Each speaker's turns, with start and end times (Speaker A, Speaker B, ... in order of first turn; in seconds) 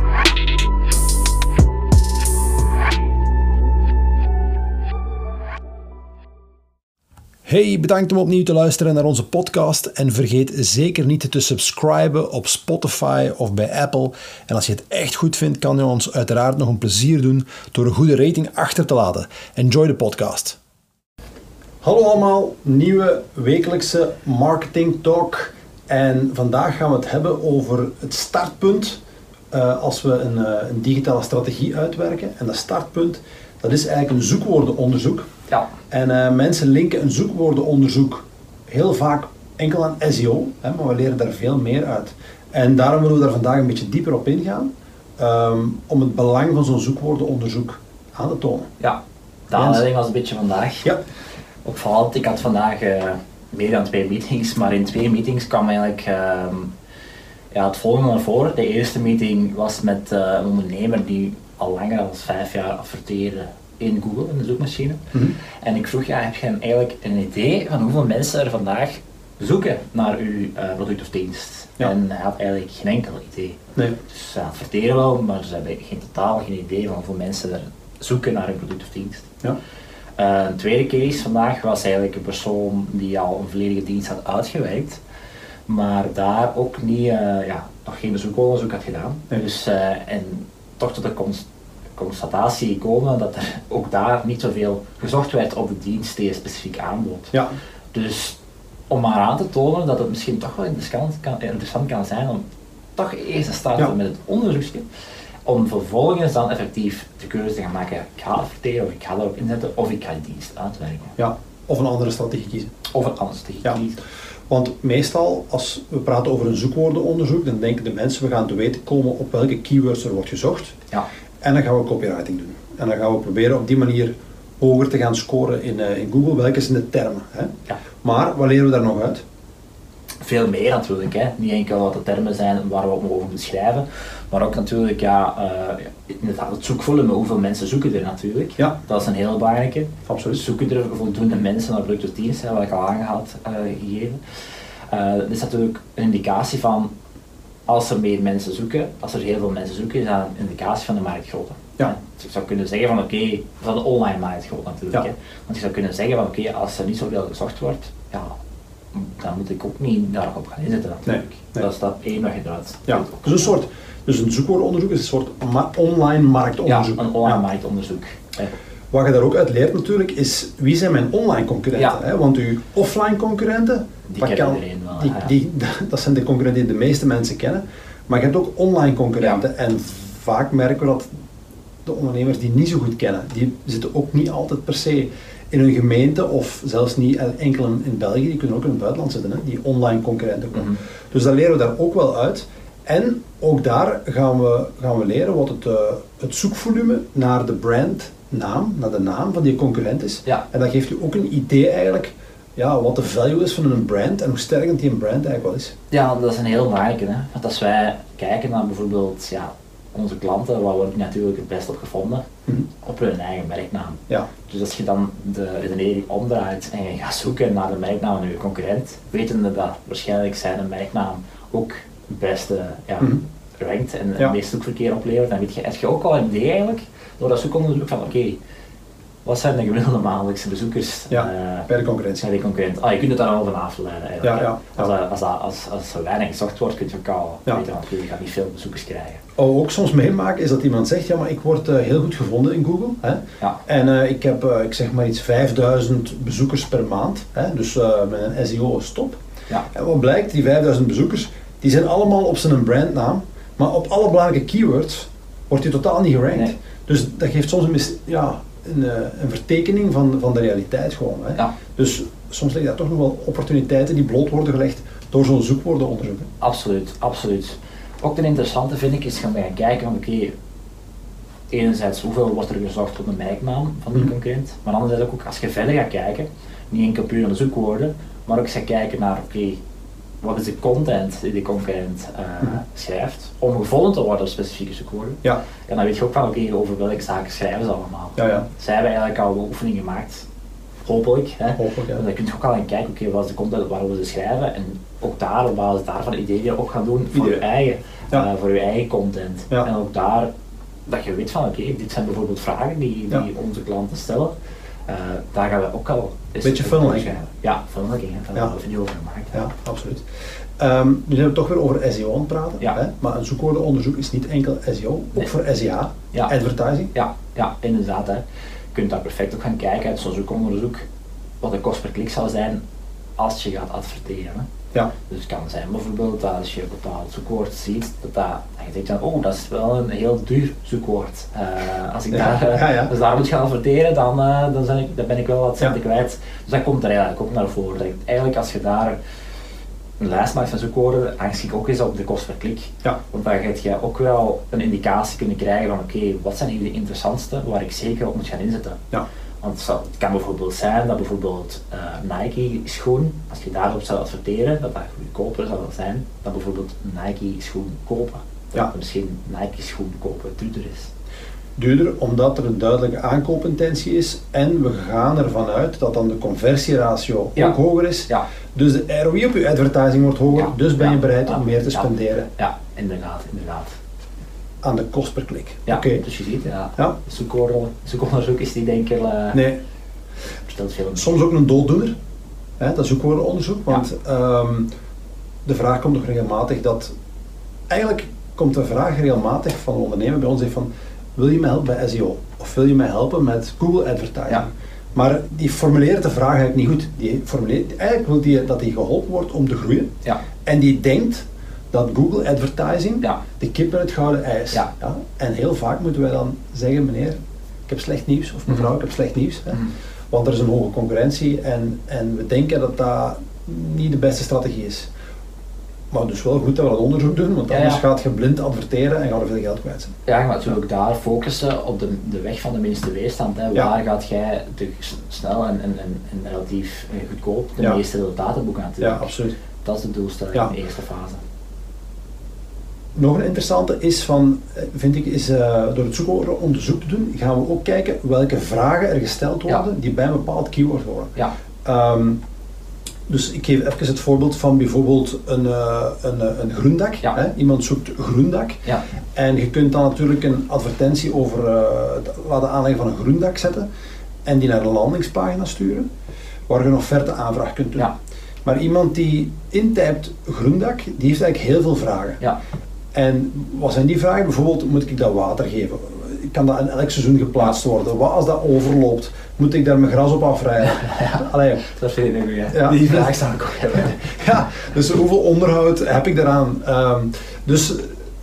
Speaker A: 7.5-20.6, 21.8-29.0, 29.5-35.3, 35.9-48.7, 49.5-49.8, 111.2-112.7, 114.5-120.7, 121.4-129.2, 140.1-140.4, 161.1-161.7, 162.9-167.4, 168.9-181.1, 181.8-205.7, 231.1-232.3, 234.2-234.9, 239.4-249.2, 249.7-266.3, 288.2-288.4, 291.6-292.0, 297.1-297.4, 306.4-307.1, 309.3-310.0, 310.6-316.9, 332.1-332.9, 361.6-372.3, 374.6-376.0, 379.3-379.6, 380.9-381.9, 382.6-384.7, 385.4-386.9, 387.7-399.9, 400.4-414.9, 415.9-419.9, 428.8-429.3, 432.9-441.1, 441.6-442.2, 443.1-448.6, 449.1-453.7, 454.2-455.9, 456.5-457.9, 458.4-462.2, 462.9-471.6, 472.5-473.1, 473.7-478.0
Speaker B: 49.5-51.0, 51.6-56.7, 57.5-65.0, 65.6-79.3, 80.2-85.0, 85.7-97.4, 97.9-98.4, 98.9-102.4, 103.0-104.8, 105.4-111.2, 112.9-114.0, 130.2-144.2, 144.9-146.9, 147.7-158.3, 158.9-163.6, 166.7-168.6, 174.1-175.3, 205.9-212.2, 212.8-228.4, 229.2-231.7, 232.2-239.2, 266.4-270.3, 271.5-279.6, 280.2-290.2, 290.8-300.3, 300.9-304.3, 304.9-309.4, 316.9-320.9, 321.4-322.6, 323.2-324.5, 325.1-339.0, 340.0-348.8, 349.4-360.9, 367.4-368.2, 370.3-373.8, 375.6-379.4, 380.4-381.2, 417.5-417.8, 420.1-429.1, 429.6-431.2, 470.7-474.2